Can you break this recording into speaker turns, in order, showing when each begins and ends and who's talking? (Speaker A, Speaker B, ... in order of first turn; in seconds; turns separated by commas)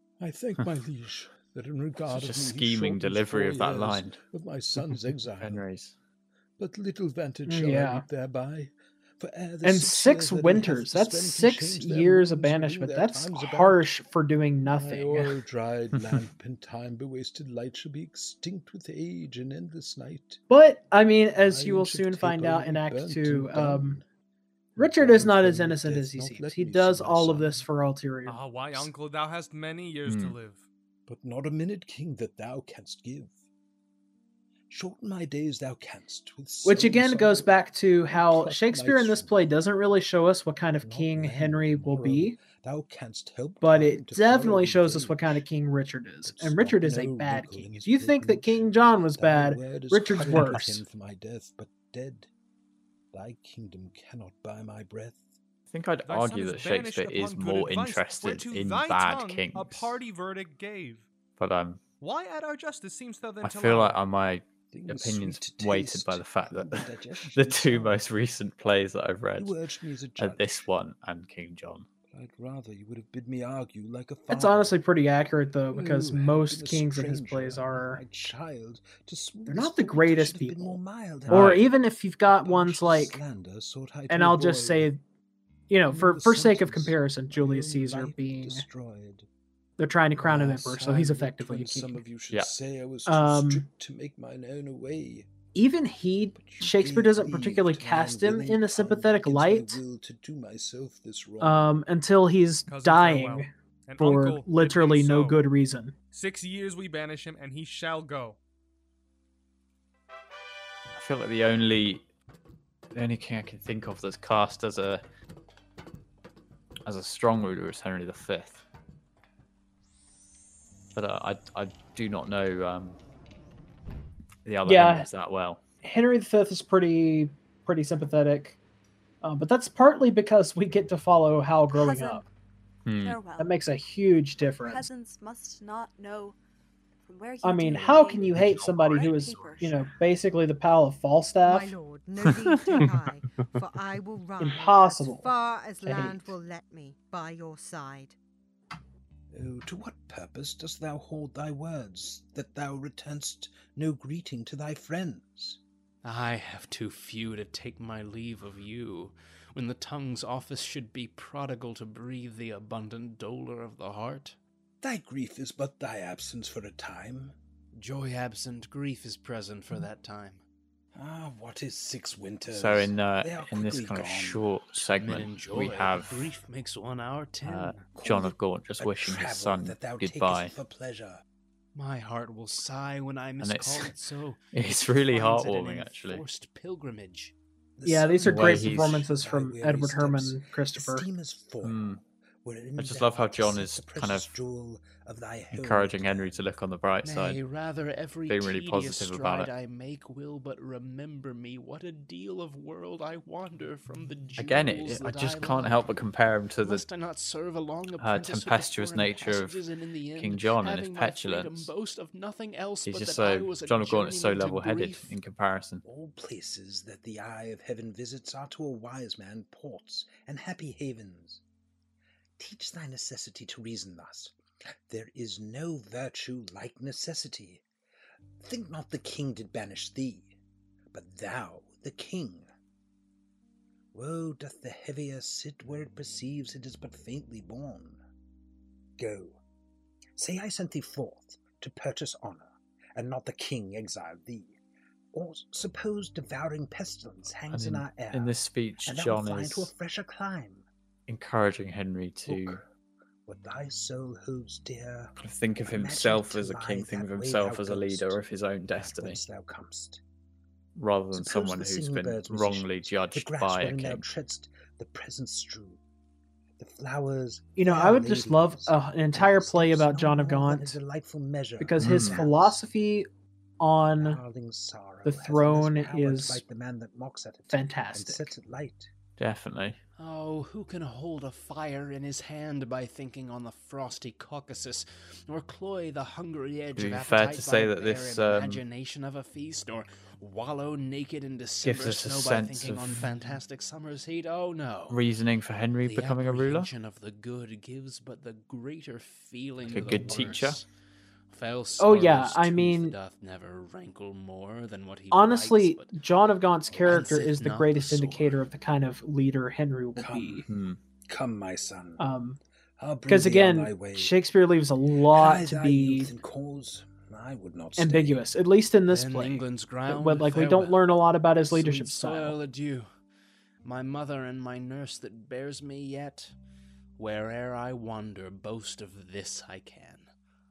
Speaker A: 0.2-5.6, Speaker B: 2.1-4.2, Speaker B: 5.4-6.0, Speaker A: 6.6-13.8, Speaker C: 7.5-8.0, Speaker C: 9.6-15.3, Speaker A: 14.7-20.4, Speaker C: 20.5-24.0, Speaker A: 21.3-24.0, Speaker A: 24.8-27.7, Speaker C: 24.8-28.8, Speaker D: 28.3-30.6, Speaker B: 30.1-30.4, Speaker A: 31.1-33.3, Speaker A: 34.7-39.4, Speaker C: 36.6-42.4, Speaker A: 40.7-45.4, Speaker C: 43.6-50.8, Speaker A: 46.2-52.3, Speaker A: 53.1-55.3, Speaker B: 55.7-60.0, Speaker D: 56.1-61.1, Speaker B: 61.4-61.8, Speaker D: 62.0-64.0, Speaker B: 63.4-69.5, Speaker A: 64.7-68.0, Speaker A: 69.4-70.7, Speaker B: 70.2-71.9, Speaker A: 72.1-74.8, Speaker C: 74.3-78.0, Speaker A: 75.7-81.7, Speaker C: 79.5-80.8, Speaker B: 81.3-81.7, Speaker C: 81.3-83.2, Speaker A: 82.3-84.9, Speaker C: 84.1-85.0, Speaker C: 85.7-88.7, Speaker A: 85.9-89.3, Speaker C: 89.8-92.0, Speaker A: 90.2-95.3, Speaker C: 93.1-93.7, Speaker C: 95.6-99.8, Speaker A: 96.4-101.7, Speaker C: 101.4-105.9, Speaker D: 102.7-105.4, Speaker D: 106.1-108.4, Speaker B: 111.0-112.1, Speaker B: 112.9-115.0, Speaker B: 116.9-118.6, Speaker B: 121.0-123.0, Speaker B: 124.4-125.6, Speaker C: 124.7-125.1, Speaker C: 125.8-128.6, Speaker C: 129.2-132.2, Speaker E: 131.7-132.2, Speaker B: 132.9-133.2, Speaker E: 133.0-133.6, Speaker C: 133.4-134.9, Speaker E: 134.6-136.4, Speaker E: 137.0-139.8, Speaker C: 137.4-141.7, Speaker F: 141.4-148.2, Speaker C: 144.4-145.3, Speaker C: 145.8-146.3, Speaker A: 149.3-155.6, Speaker G: 156.0-164.4, Speaker A: 164.8-167.4, Speaker G: 167.8-170.4, Speaker A: 170.9-174.5, Speaker B: 172.5-176.2, Speaker G: 174.9-177.8, Speaker B: 177.4-180.5, Speaker A: 177.9-181.2, Speaker G: 181.8-187.3, Speaker B: 183.4-183.9, Speaker B: 184.5-186.2, Speaker A: 187.8-196.5, Speaker C: 187.8-191.1, Speaker B: 188.2-189.0, Speaker B: 191.6-192.0, Speaker B: 192.8-194.3, Speaker B: 195.5-197.4, Speaker G: 197.0-205.9, Speaker B: 198.3-199.5, Speaker B: 204.4-206.8, Speaker G: 206.6-215.2, Speaker B: 208.0-209.6, Speaker B: 210.2-211.7, Speaker B: 212.9-215.8, Speaker A: 215.8-221.4, Speaker A: 222.4-224.4, Speaker A: 224.9-227.6, Speaker A: 228.4-230.3, Speaker A: 230.9-232.5, Speaker A: 233.9-238.0, Speaker A: 239.0-239.4, Speaker A: 240.2-244.6, Speaker A: 245.1-250.7, Speaker B: 247.5-249.7, Speaker B: 251.1-252.6, Speaker A: 252.3-252.6, Speaker A: 253.3-260.0, Speaker B: 255.2-259.2, Speaker B: 260.8-264.0, Speaker A: 261.1-265.8, Speaker A: 266.6-272.6, Speaker C: 267.6-270.8, Speaker C: 271.6-273.1, Speaker B: 271.8-272.3, Speaker C: 273.6-274.2, Speaker A: 274.0-278.9, Speaker C: 275.1-276.4, Speaker C: 277.5-278.3, Speaker B: 279.2-279.8, Speaker G: 280.0-295.1, Speaker B: 286.8-288.6, Speaker B: 291.6-293.1, Speaker B: 294.9-296.7, Speaker G: 295.8-300.7, Speaker B: 299.7-300.6, Speaker G: 301.3-306.0, Speaker C: 301.8-302.9, Speaker C: 305.1-310.5, Speaker G: 306.8-308.4, Speaker A: 309.9-310.5, Speaker B: 310.5-310.8, Speaker A: 311.1-312.0, Speaker C: 312.0-312.4, Speaker A: 312.8-314.2, Speaker C: 313.1-316.1, Speaker A: 315.1-318.2, Speaker C: 317.8-322.4, Speaker G: 318.9-320.9, Speaker G: 321.5-322.9, Speaker G: 323.6-326.4, Speaker G: 327.0-330.1